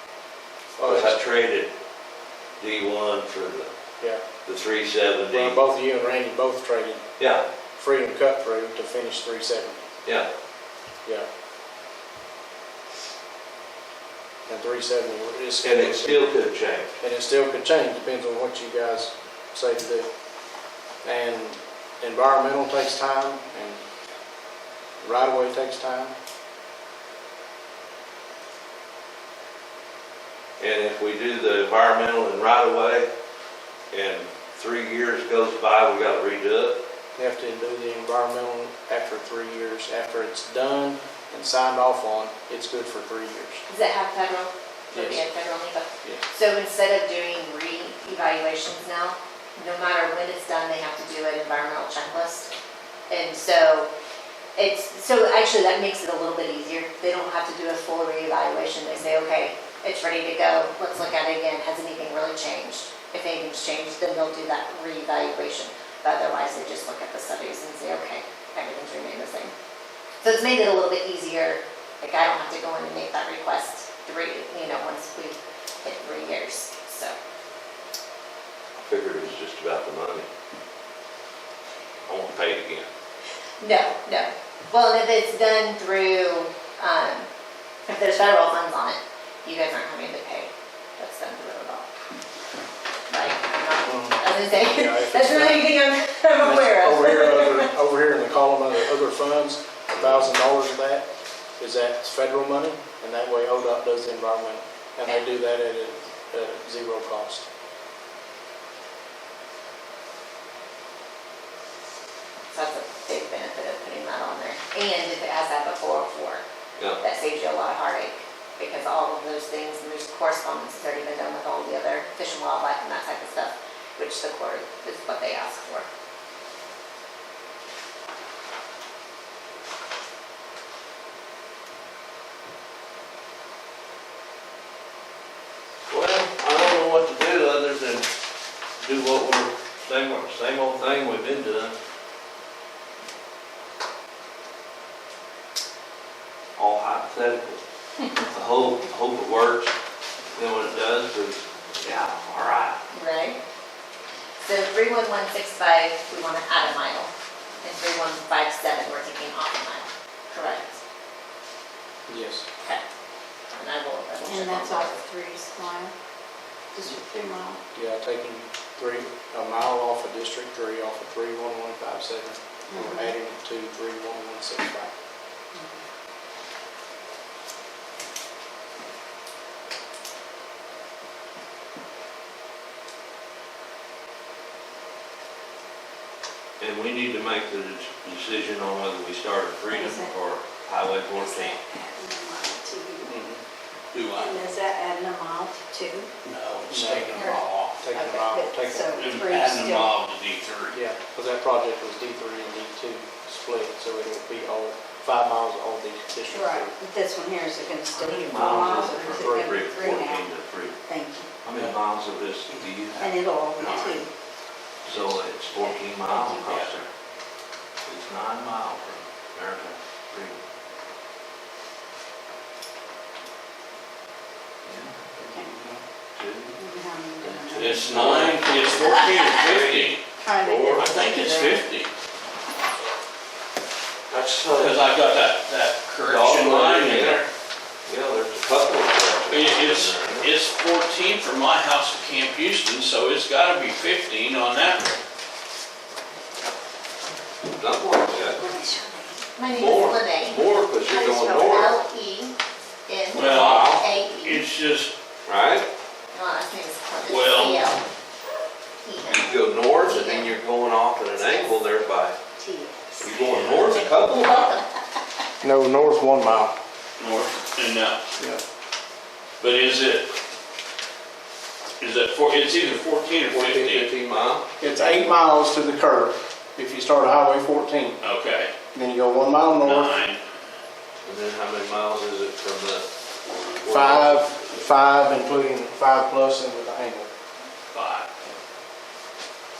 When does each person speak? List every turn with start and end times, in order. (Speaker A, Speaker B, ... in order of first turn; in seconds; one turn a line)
Speaker A: 0.8-1.2
Speaker B: 0.8-1.7
Speaker B: 2.6-3.7
Speaker B: 4.5-5.6
Speaker A: 5.3-7.0
Speaker B: 7.2-7.5
Speaker A: 7.8-9.9
Speaker A: 14.5-16.2
Speaker B: 15.6-16.9
Speaker A: 17.0-20.1
Speaker A: 21.0-23.8
Speaker A: 25.0-26.1
Speaker B: 30.6-33.1
Speaker B: 33.9-36.8
Speaker A: 37.2-43.6
Speaker C: 43.7-52.5
Speaker A: 44.9-45.3
Speaker C: 53.1-53.9
Speaker C: 54.6-69.5
Speaker C: 70.2-77.1
Speaker B: 78.8-80.3
Speaker B: 82.0-82.9
Speaker C: 83.6-87.3
Speaker C: 87.9-91.9
Speaker C: 93.1-97.7
Speaker A: 93.8-95.8
Speaker A: 96.4-101.1
Speaker B: 99.9-100.3
Speaker A: 101.6-107.5
Speaker C: 112.5-116.4
Speaker C: 117.0-125.9
Speaker B: 135.9-138.1
Speaker B: 138.8-141.8
Speaker B: 146.6-147.6
Speaker B: 148.3-149.7
Speaker B: 150.3-152.8
Speaker C: 152.9-153.4
Speaker C: 154.4-157.1
Speaker C: 157.6-160.8
Speaker A: 162.1-162.4
Speaker C: 163.5-165.1
Speaker D: 164.2-165.9
Speaker D: 166.7-167.6
Speaker A: 167.7-174.9
Speaker D: 172.7-173.2
Speaker D: 175.5-175.8
Speaker B: 186.6-191.6
Speaker D: 189.7-190.2
Speaker D: 191.1-193.2
Speaker A: 193.1-193.4
Speaker E: 193.9-194.4
Speaker D: 194.2-196.1
Speaker E: 196.2-197.9
Speaker A: 196.7-199.0
Speaker D: 197.2-199.9
Speaker E: 198.9-200.8
Speaker A: 200.7-206.8
Speaker D: 206.3-210.3
Speaker B: 207.9-210.8
Speaker D: 210.8-211.3
Speaker B: 211.4-213.9
Speaker D: 213.0-214.1
Speaker E: 213.6-214.0
Speaker B: 214.8-216.9
Speaker D: 215.6-216.5
Speaker E: 216.4-216.8
Speaker B: 217.9-220.4
Speaker B: 224.6-226.6
Speaker D: 225.3-225.6
Speaker D: 226.6-227.9
Speaker B: 227.2-231.3
Speaker E: 227.6-230.1
Speaker D: 230.2-231.6
Speaker E: 230.8-231.9
Speaker B: 234.1-234.8
Speaker E: 234.4-237.3
Speaker B: 236.1-237.2
Speaker B: 237.9-240.3
Speaker E: 239.3-244.9
Speaker B: 247.6-248.4
Speaker D: 248.3-249.3
Speaker C: 249.3-252.4
Speaker B: 249.5-251.8
Speaker C: 252.9-254.4
Speaker E: 253.1-254.9
Speaker B: 253.2-253.8
Speaker B: 255.3-255.7
Speaker C: 256.1-257.9
Speaker E: 257.1-257.7
Speaker C: 258.8-260.4
Speaker B: 259.1-262.2
Speaker C: 261.1-261.6
Speaker C: 262.4-264.6
Speaker B: 263.0-264.6
Speaker E: 263.3-263.6
Speaker A: 265.4-266.6
Speaker E: 267.0-268.0
Speaker E: 269.4-270.1
Speaker E: 271.8-273.9
Speaker B: 273.3-274.5
Speaker A: 274.6-278.0
Speaker E: 278.0-278.5
Speaker A: 278.8-280.0
Speaker E: 279.6-280.2
Speaker B: 281.0-282.9
Speaker B: 283.6-284.4
Speaker A: 283.7-287.1
Speaker E: 287.7-288.1